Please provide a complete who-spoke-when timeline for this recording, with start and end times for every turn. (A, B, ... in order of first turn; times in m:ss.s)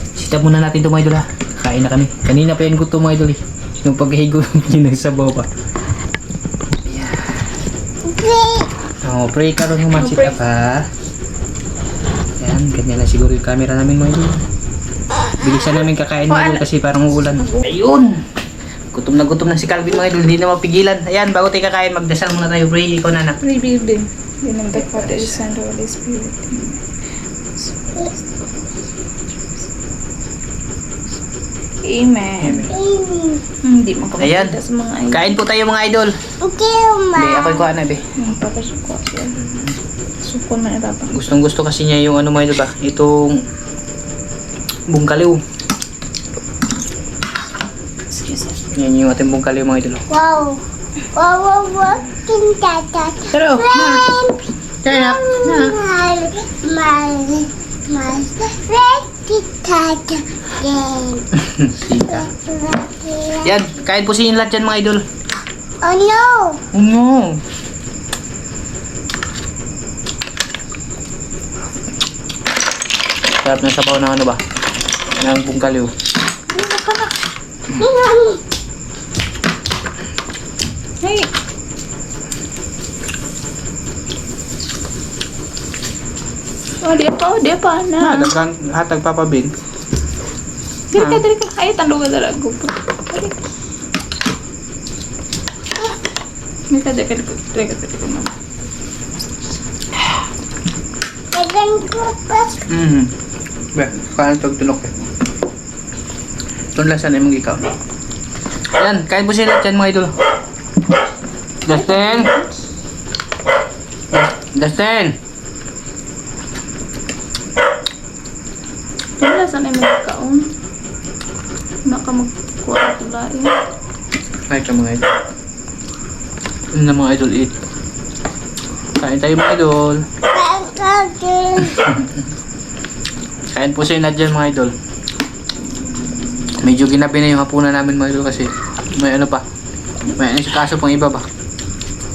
0:00.2-0:05.5 A
0:06.9-0:07.2 A
0:08.0-0:08.7 B
0:09.0-0:10.9 A
0:10.0-0:10.4 C
0:12.4-0:14.4 A
0:15.3-0:18.2 A
0:18.9-0:23.4 A
0:23.4-0:26.8 C
0:24.7-0:25.4 A
0:27.8-0:28.1 C
0:31.8-0:32.7 C
0:32.4-0:32.8 A
0:32.7-0:33.4 B
0:33.6-0:35.4 C
0:34.2-0:34.6 A
0:35.1-0:36.1 A
0:36.4-0:37.7 B
0:37.1-0:38.0 A
0:38.2-0:39.4 C
0:39.4-0:39.8 A
0:40.2-0:41.1 C
0:41.1-0:43.4 A
0:44.9-0:45.4 A
0:48.1-0:48.6 C
0:48.7-0:50.0 A
0:50.1-0:50.6 B
0:51.1-1:01.2 B
0:53.3-0:54.1 A
0:54.8-0:55.8 A
1:01.4-1:02.3 A
1:02.1-1:03.6 B
1:03.4-1:05.0 A
1:05.8-1:06.6 B
1:06.7-1:07.4 A
1:13.4-1:14.4 A
1:15.2-1:15.9 A
1:16.5-1:17.1 C
1:17.8-1:18.4 B
1:21.0-1:21.3 C
1:26.8-1:28.3 C
1:28.0-1:29.5 A
1:30.9-1:33.3 C
1:30.9-1:31.2 A
1:36.7-1:38.3 C
1:41.3-1:42.6 B
1:42.7-1:43.1 A
1:43.8-1:44.9 A
1:46.8-1:47.7 A
1:48.8-1:50.2 A
1:51.6-1:52.3 A
1:51.7-1:52.6 C
1:54.1-1:55.2 A
1:59.2-2:00.5 C
2:01.8-2:03.6 C
2:04.5-2:05.1 A
2:06.7-2:07.5 A
2:09.0-2:10.0 A
2:10.3-2:12.0 B
2:13.5-2:14.7 A
2:16.6-2:19.4 A
2:20.2-2:21.2 A